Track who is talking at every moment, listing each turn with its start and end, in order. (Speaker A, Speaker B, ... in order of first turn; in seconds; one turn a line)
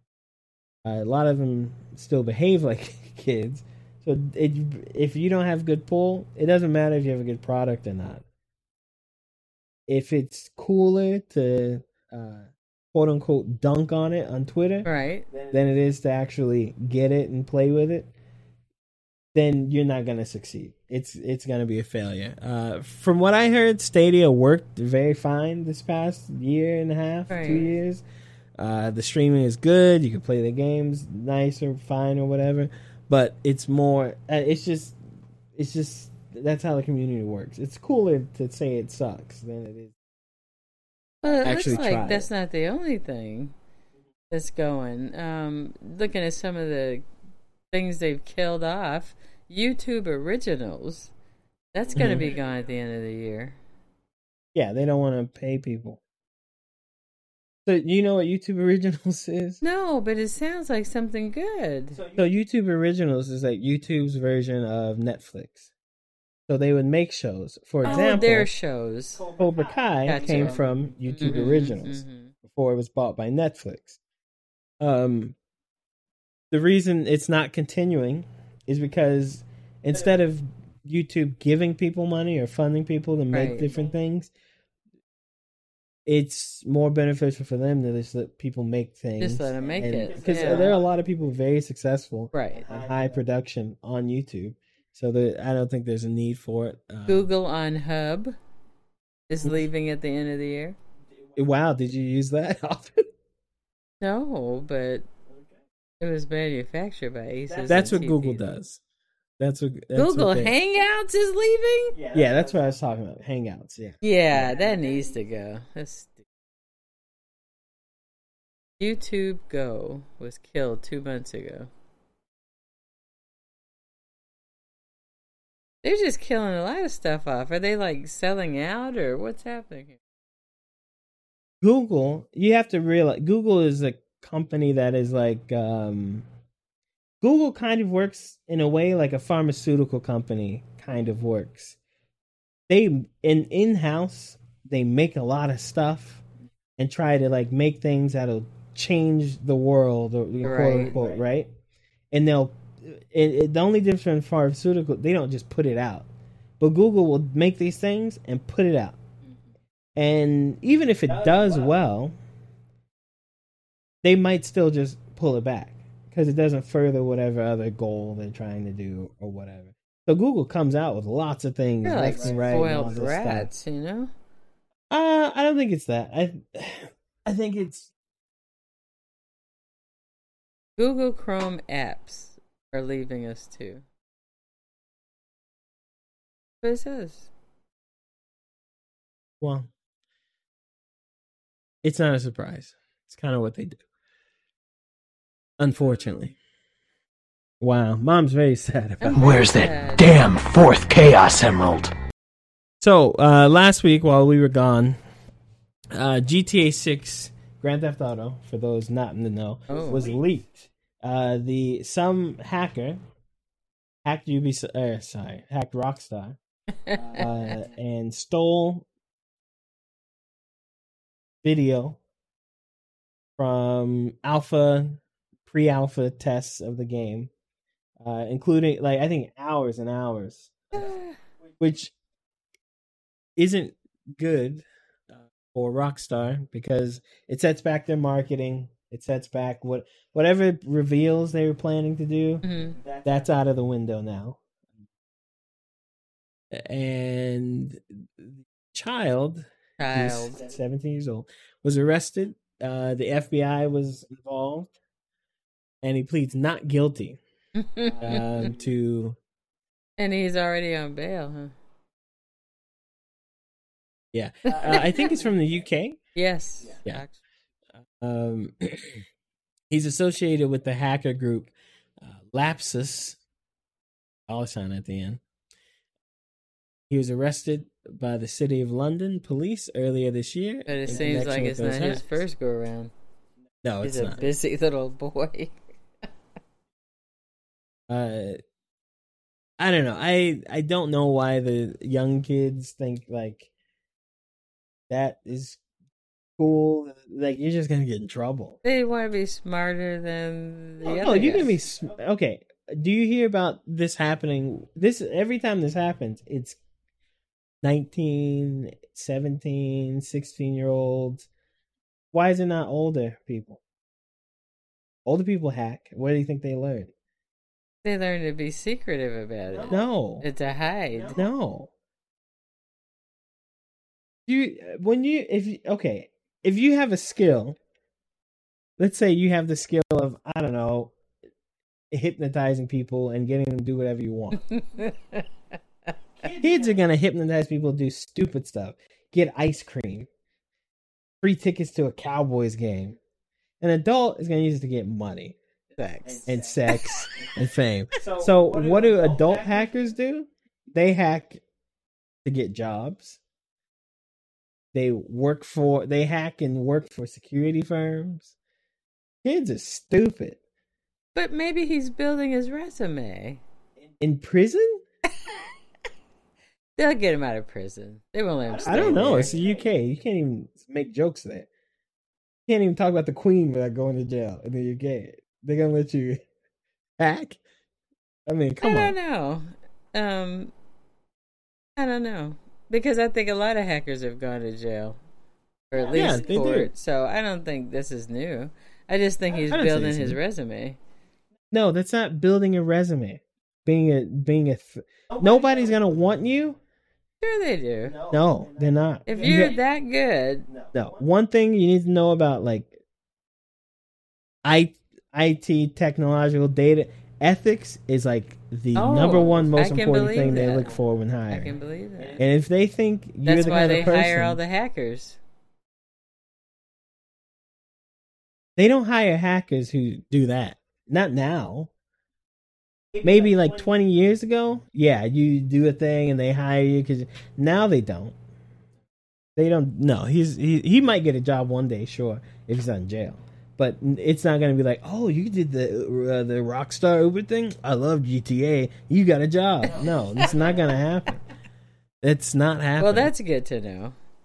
Speaker A: 0.8-8.2
Speaker A: 9.9-14.9
Speaker B: 14.8-15.3
Speaker A: 15.5-18.1
Speaker A: 19.3-28.0
Speaker B: 27.3-27.7
Speaker A: 28.6-35.0
Speaker A: 35.5-39.9
Speaker B: 41.2-43.5
Speaker A: 41.4-42.3
Speaker B: 44.3-47.0
Speaker B: 47.7-51.1
Speaker B: 51.7-53.5
Speaker A: 51.9-52.3
Speaker A: 54.5-56.0
Speaker A: 57.6-59.6
Speaker B: 59.6-62.0
Speaker A: 62.0-65.7
Speaker A: 66.5-68.5
Speaker B: 67.8-69.2
Speaker A: 69.2-74.0
Speaker B: 70.0-72.3
Speaker A: 74.8-75.3
Speaker A: 76.5-84.3
Speaker B: 83.3-83.7
Speaker A: 86.0-97.3
Speaker B: 89.2-90.8
Speaker B: 92.3-92.7
Speaker B: 97.1-98.3
Speaker B: 99.3-100.8
Speaker A: 101.3-103.0
Speaker B: 104.0-105.0
Speaker B: 106.0-108.4
Speaker A: 107.6-108.8
Speaker A: 109.4-110.5
Speaker B: 109.9-112.0
Speaker A: 112.1-114.6
Speaker B: 114.0-116.2
Speaker B: 118.8-121.7
Speaker B: 125.8-130.0
Speaker A: 131.6-136.2
Speaker A: 137.2-141.8
Speaker A: 142.7-146.2
Speaker A: 146.8-151.5
Speaker B: 150.4-150.9
Speaker A: 152.1-156.1
Speaker A: 156.6-159.0
Speaker A: 159.9-162.1
Speaker A: 164.0-173.5
Speaker B: 171.8-174.1
Speaker A: 174.9-177.9
Speaker B: 180.8-183.8
Speaker B: 186.6-187.3
Speaker A: 189.4-189.7
Speaker A: 191.8-193.8
Speaker A: 195.6-196.3
Speaker A: 197.6-199.5
Speaker B: 199.0-200.2
Speaker C: 199.3-201.9
Speaker A: 202.8-205.0
Speaker A: 205.9-213.0
Speaker B: 209.7-210.0
Speaker A: 214.0-216.4
Speaker B: 216.9-217.3
Speaker A: 217.1-218.8
Speaker A: 221.4-222.0
Speaker A: 223.4-227.3
Speaker A: 228.0-230.9
Speaker B: 230.7-231.1
Speaker A: 231.6-231.9
Speaker A: 233.4-244.4
Speaker B: 242.4-242.8
Speaker A: 246.5-254.7
Speaker B: 249.8-250.4
Speaker A: 255.8-257.2
Speaker B: 257.6-258.5
Speaker A: 258.0-259.2
Speaker B: 260.0-261.5
Speaker A: 264.1-266.0
Speaker B: 264.5-265.1
Speaker B: 266.1-267.1
Speaker A: 267.9-269.0
Speaker A: 269.7-273.2
Speaker A: 274.3-275.2
Speaker A: 276.9-282.1
Speaker B: 280.6-282.9
Speaker A: 283.6-284.3
Speaker B: 283.8-285.5
Speaker A: 287.9-288.4
Speaker A: 289.6-293.5
Speaker A: 294.9-295.6
Speaker A: 296.4-298.6
Speaker B: 298.6-301.5
Speaker A: 300.8-306.6
Speaker A: 307.6-311.3
Speaker A: 312.1-313.6
Speaker A: 315.0-316.9
Speaker B: 317.8-321.2
Speaker A: 319.7-320.2
Speaker A: 321.1-321.7
Speaker A: 324.3-327.6
Speaker A: 328.8-330.9
Speaker A: 331.9-334.4
Speaker B: 334.4-335.2
Speaker A: 336.2-340.1
Speaker A: 341.2-343.0
Speaker A: 343.6-345.4
Speaker B: 345.8-347.0
Speaker A: 346.2-351.4
Speaker A: 352.2-353.2
Speaker A: 354.7-358.3
Speaker A: 359.2-360.4
Speaker B: 361.1-363.4
Speaker A: 364.0-364.8
Speaker B: 366.8-369.3
Speaker A: 368.6-371.5
Speaker A: 372.5-376.2
Speaker A: 377.0-377.4
Speaker A: 378.3-378.9
Speaker B: 378.6-380.5
Speaker B: 381.8-385.0
Speaker B: 385.7-390.8
Speaker A: 385.9-386.7
Speaker A: 389.5-390.2
Speaker A: 391.5-396.6
Speaker B: 397.2-398.0
Speaker A: 398.1-399.6
Speaker B: 399.1-400.5
Speaker A: 400.7-402.8
Speaker A: 404.4-411.5
Speaker B: 408.7-410.7
Speaker B: 411.3-412.2
Speaker A: 412.1-414.4
Speaker B: 413.2-415.2
Speaker A: 418.6-421.7
Speaker A: 423.0-428.1
Speaker A: 429.4-441.2
Speaker A: 442.0-443.1
Speaker B: 442.8-443.9